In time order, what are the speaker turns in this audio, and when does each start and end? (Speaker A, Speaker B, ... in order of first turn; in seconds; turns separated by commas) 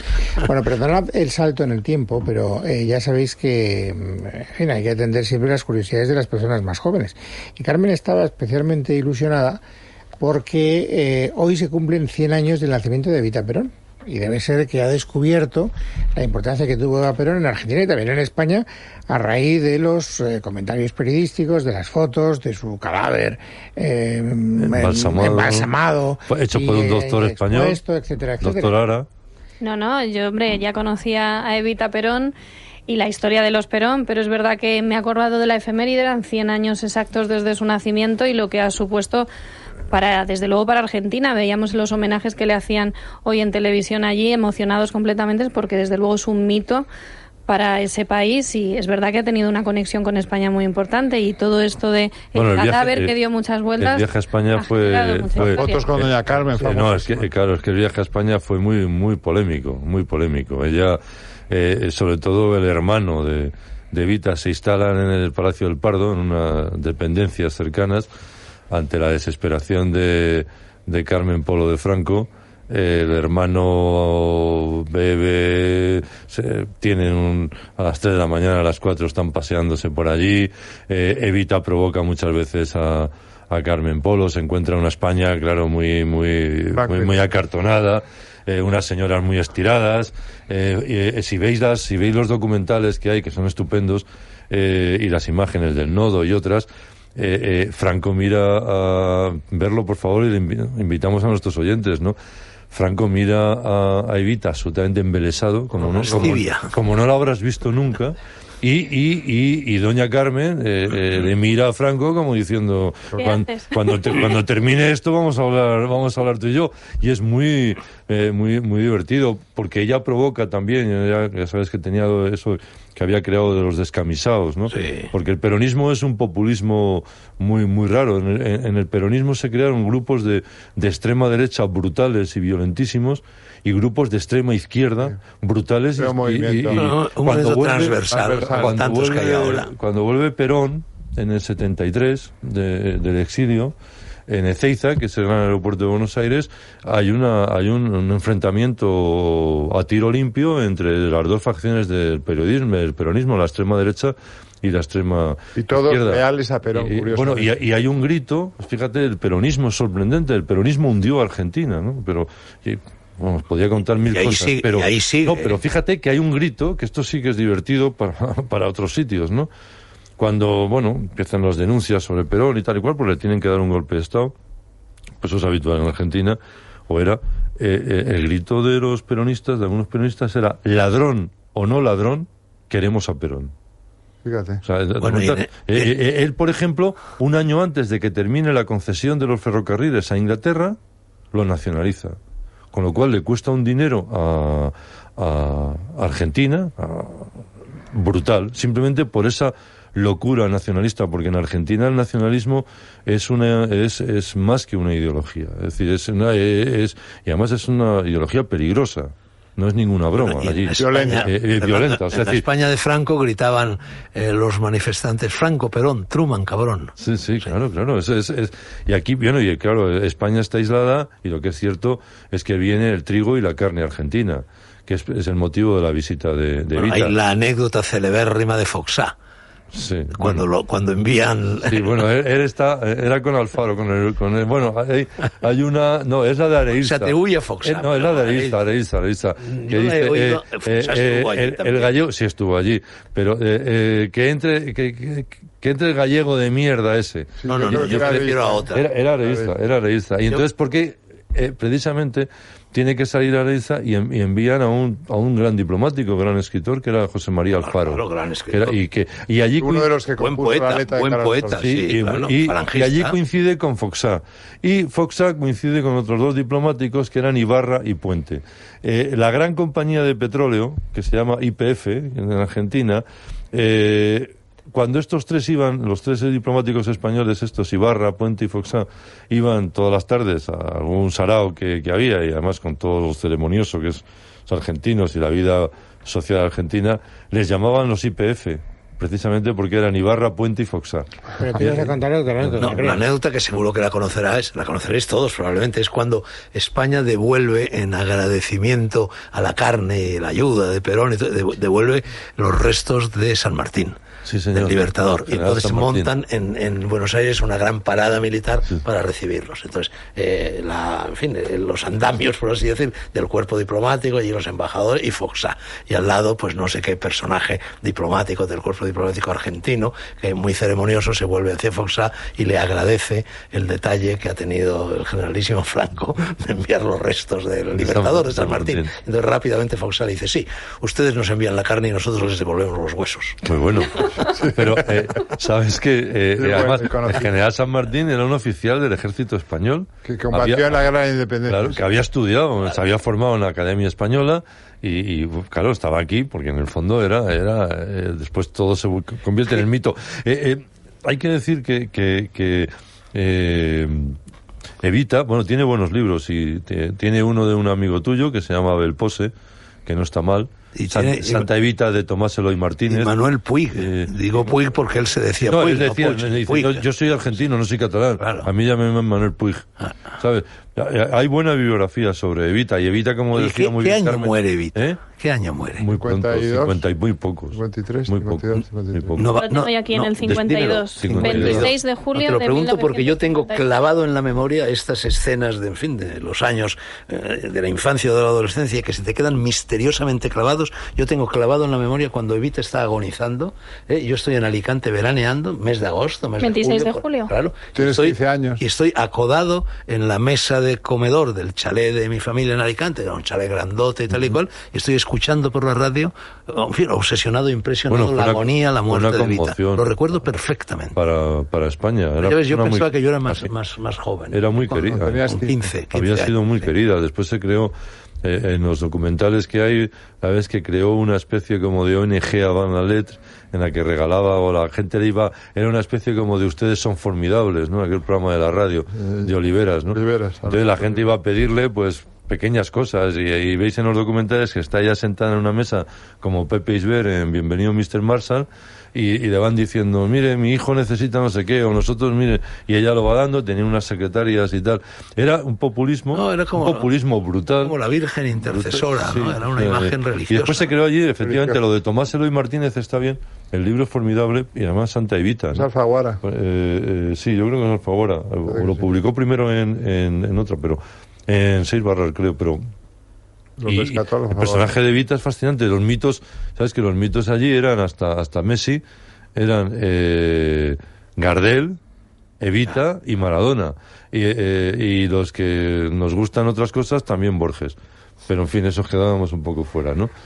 Speaker A: 0.4-9.6, Speaker A: 10.2-28.8, Speaker B: 24.6-25.7, Speaker B: 26.3-27.8, Speaker B: 28.4-29.1, Speaker C: 29.6-32.3, Speaker C: 32.9-39.3, Speaker C: 39.9-46.9, Speaker C: 47.5-55.8, Speaker B: 52.3-53.1, Speaker B: 53.8-68.1, Speaker D: 55.4-57.3, Speaker B: 68.7-102.2, Speaker D: 86.7-87.2, Speaker B: 102.7-143.7, Speaker E: 105.8-106.7, Speaker C: 113.2-113.7, Speaker E: 124.7-125.1, Speaker D: 135.9-136.9, Speaker E: 136.7-139.7, Speaker D: 138.1-138.8, Speaker B: 144.3-156.2, Speaker D: 155.6-157.6, Speaker B: 156.7-169.5, Speaker E: 164.1-165.6, Speaker B: 170.2-174.3, Speaker B: 175.2-183.5, Speaker D: 184.2-184.6, Speaker B: 184.6-190.8, Speaker E: 185.0-185.9, Speaker B: 191.3-192.2, Speaker B: 192.7-197.3, Speaker B: 197.9-212.4, Speaker E: 210.2-216.9, Speaker D: 210.7-211.3, Speaker B: 217.0-227.1, Speaker E: 226.7-229.1, Speaker B: 229.7-230.4, Speaker E: 230.1-232.0, Speaker B: 231.7-259.9, Speaker E: 236.8-238.6, Speaker E: 239.4-241.9, Speaker D: 247.4-248.7, Speaker E: 247.4-248.9, Speaker D: 249.2-249.5, Speaker E: 257.6-258.8, Speaker D: 259.6-261.6, Speaker E: 260.2-263.2, Speaker B: 261.6-292.7, Speaker A: 291.4-293.0, Speaker E: 292.6-304.0, Speaker B: 304.2-306.1, Speaker E: 304.5-333.4, Speaker B: 327.8-328.9, Speaker B: 333.4-340.8, Speaker D: 334.2-334.8, Speaker D: 336.4-337.3, Speaker D: 340.0-341.8, Speaker B: 341.5-354.2, Speaker B: 354.8-359.3, Speaker B: 359.9-363.1, Speaker E: 360.7-361.5, Speaker E: 362.9-366.8, Speaker B: 363.7-364.1, Speaker B: 365.5-375.0, Speaker E: 368.2-368.5, Speaker E: 373.3-375.8, Speaker B: 375.8-379.3, Speaker D: 375.9-376.8, Speaker D: 377.5-379.2, Speaker E: 379.2-411.0, Speaker C: 379.3-383.6, Speaker B: 380.2-381.7, Speaker C: 396.4-397.3, Speaker D: 397.7-398.6, Speaker B: 407.9-409.9, Speaker B: 410.9-413.5, Speaker E: 412.2-416.7, Speaker B: 414.3-415.2, Speaker D: 414.8-415.7, Speaker B: 415.9-447.7, Speaker D: 429.0-429.3, Speaker D: 429.9-431.1, Speaker E: 446.1-446.9, Speaker E: 447.6-450.7, Speaker B: 448.4-455.7, Speaker D: 451.2-451.6, Speaker D: 455.5-456.2, Speaker B: 456.2-462.6, Speaker D: 458.5-458.8, Speaker D: 463.6-464.7, Speaker B: 463.7-468.8, Speaker B: 469.4-471.8, Speaker B: 472.4-477.8, Speaker B: 478.3-480.1